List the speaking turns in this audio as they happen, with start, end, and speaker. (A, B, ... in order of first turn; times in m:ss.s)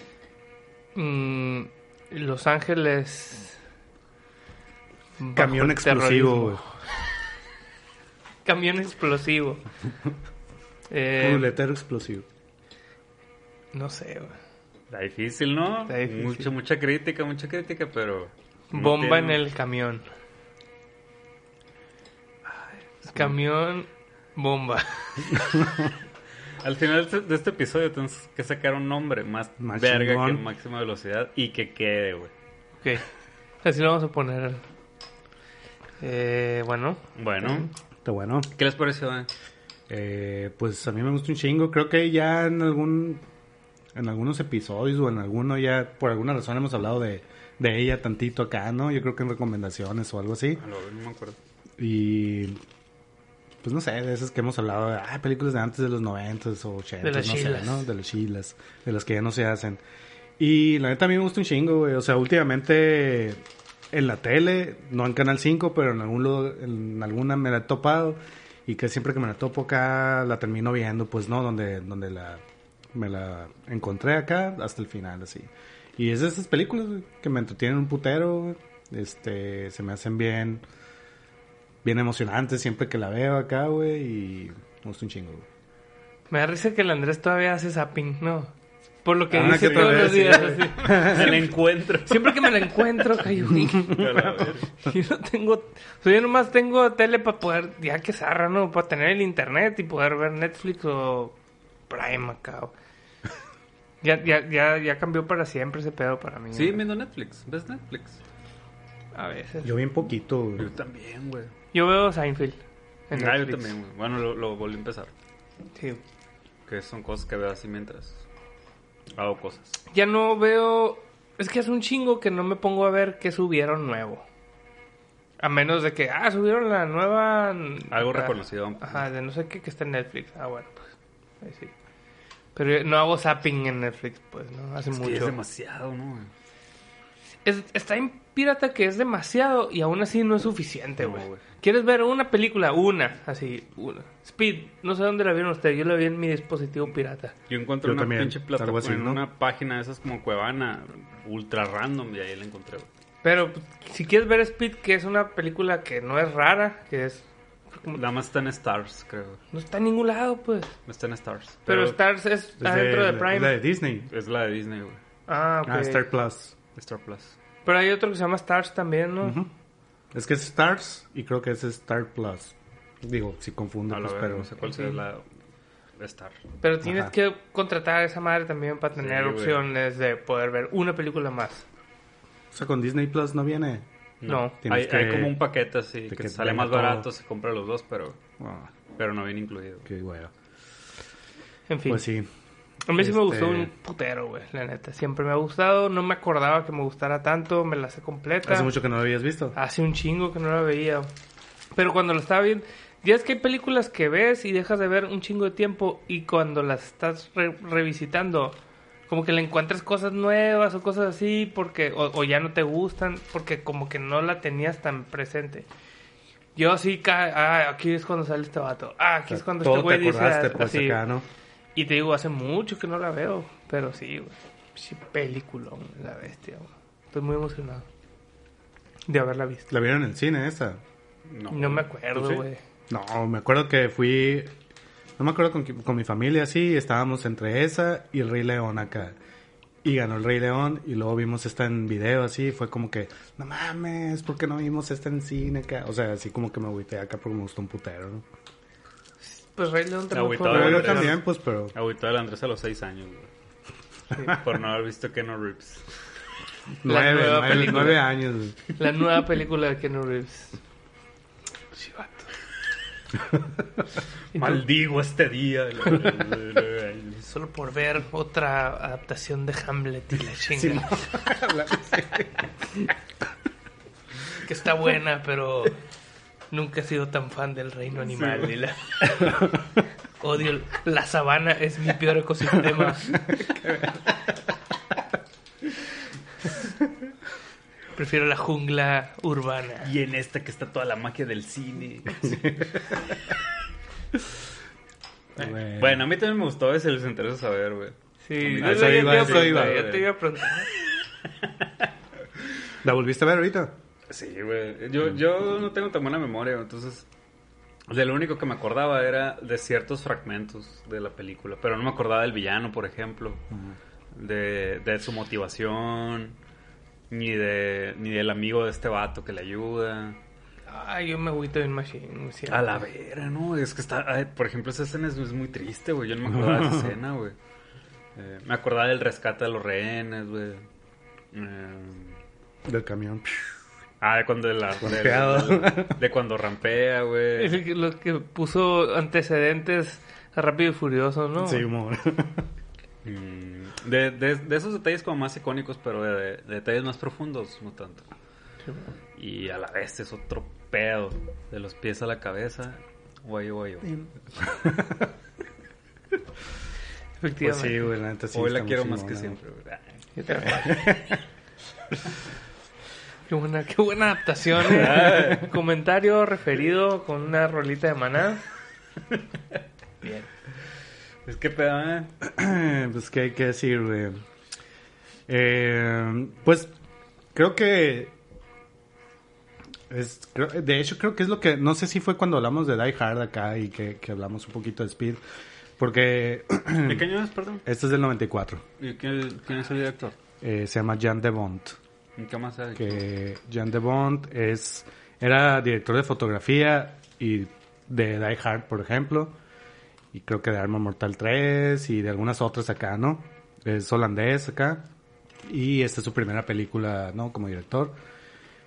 0:01.0-0:03.6 A
0:05.2-0:06.6 A
0:05.4-0:06.6 B
0:08.4-0:09.6 A
0:10.9-0:11.5 A
0:11.2-0:12.3 B
0:13.7-0:14.4 A
0:14.9-0:19.4 C
0:15.9-0:16.5 A
0:18.7-0:20.0 A
0:23.1-0:25.7 A
0:26.6-0:32.3 C
0:29.6-0:30.4 B
0:33.6-0:34.6 A
0:36.0-0:37.7 A
0:37.2-0:37.7 C
0:38.0-0:38.5 B
0:38.6-0:39.3 C
0:39.9-0:43.2 B
0:44.0-0:50.6 B
0:50.6-0:51.4 C
0:51.8-0:52.6 B
0:53.6-0:59.8 B
0:57.0-0:57.9 A
1:00.4-1:12.4 B
1:12.9-1:20.6 B
1:21.8-1:25.5 B
1:26.3-1:28.5 A
1:29.0-1:31.5 A
1:29.3-1:32.7 C
1:29.3-1:31.4 B
1:32.1-1:41.4 A
1:33.8-1:34.7 C
1:41.9-1:42.7 A
1:44.0-1:46.8 A
1:46.5-1:48.2 C
1:49.2-1:49.8 A
1:49.6-1:50.7 B
1:50.6-1:51.5 C
1:51.7-1:53.8 A
1:53.1-1:55.1 C
1:55.8-1:56.0 A
1:56.7-1:58.2 C
1:59.2-1:59.8 C
1:59.9-2:04.3 A
2:05.4-2:10.9 A
2:07.9-2:09.0 C
2:11.4-2:11.7 A
2:12.6-2:15.4 A
2:14.9-2:16.3 C
2:17.4-2:27.3 A
2:21.0-2:21.4 C
2:27.5-2:32.9 C
2:27.8-2:29.2 B
2:33.2-2:38.0 A
2:37.9-2:39.4 C
2:39.5-2:40.7 A
2:40.9-2:42.0 C
2:41.7-2:43.6 A
2:42.6-2:44.1 B
2:44.1-2:45.0 C
2:45.3-2:46.1 A
2:45.7-2:46.5 B
2:46.8-2:47.4 C
2:47.6-2:49.4 A
2:49.2-2:49.5 B
2:50.1-2:54.5 B
2:53.9-2:55.2 C
2:54.6-2:55.0 A
2:56.0-2:56.4 C
2:56.6-3:01.6 A
2:56.8-2:57.1 B
2:59.0-2:59.6 C
3:02.5-3:03.9 B
3:04.2-3:08.2 C
3:04.2-3:04.6 A
3:04.6-3:05.4 B
3:06.1-3:07.1 B
3:08.4-3:08.7 B
3:09.0-3:09.9 C
3:09.9-3:10.3 B
3:11.7-3:12.0 A
3:11.9-3:12.3 B
3:12.9-3:18.7 A
3:13.0-3:13.7 B
3:18.5-3:19.6 B
3:19.6-3:21.1 A
3:21.8-3:35.7 A
3:36.6-3:41.0 A
3:39.3-3:41.3 B
3:41.8-3:47.9 A
3:49.1-3:49.7 A
3:49.7-3:50.8 B
3:51.3-3:52.4 C
3:51.5-3:52.6 A
3:52.9-3:54.5 B
3:55.2-3:59.2 B
3:59.8-4:08.2 B
4:09.3-4:11.2 A
4:10.1-4:13.3 C
4:10.5-4:11.7 B
4:14.2-4:15.8 C
4:16.8-4:18.6 B
4:16.8-4:18.1 A
4:18.8-4:20.6 A
4:21.8-4:22.3 A
4:24.3-4:27.3 C
4:27.2-4:31.0 A
4:30.5-4:32.8 B
4:34.4-4:35.8 A
4:36.5-4:39.5 A
4:38.0-4:38.5 C
4:40.2-4:43.2 A
4:43.6-4:44.0 C
4:48.0-4:49.9 A
4:49.8-4:53.0 C
4:52.2-4:52.8 B
4:55.4-4:56.1 B
4:55.4-5:00.1 C
4:58.2-5:00.7 A
4:58.6-4:59.8 B
5:01.4-5:01.9 C
5:02.8-5:03.8 B
5:04.1-5:07.1 C
5:07.9-5:13.4 C
5:14.2-5:16.4 C
5:17.1-5:20.2 C
5:20.7-5:22.8 A
5:22.5-5:27.4 C
5:26.3-5:27.0 B
5:28.2-5:30.6 C
5:31.3-5:32.2 C
5:32.6-5:33.5 B
5:34.0-5:37.6 C
5:34.8-5:36.0 B
5:37.4-5:41.7 A
5:41.4-5:42.5 B
5:43.0-5:48.1 C
5:48.6-5:48.9 A
5:49.2-5:54.0 C
5:53.8-5:55.1 B
5:57.2-5:57.9 A
5:57.4-5:59.4 B
5:58.3-6:00.6 C
6:00.2-6:00.9 A
6:00.5-6:01.1 B
6:03.3-6:08.4 A
6:04.6-6:05.5 C
6:10.0-6:10.3 A
6:11.2-6:12.1 C
6:12.2-6:14.2 B
6:15.3-6:16.7 B
6:17.4-6:18.2 B
6:19.9-6:25.2 B
6:25.8-6:27.1 B
6:26.8-6:27.6 C
6:27.6-6:28.6 B
6:28.8-6:30.2 C
6:30.4-6:31.8 B
6:32.2-6:33.0 C
6:32.8-6:39.4 B
6:40.1-6:44.9 B
6:45.4-6:48.0 B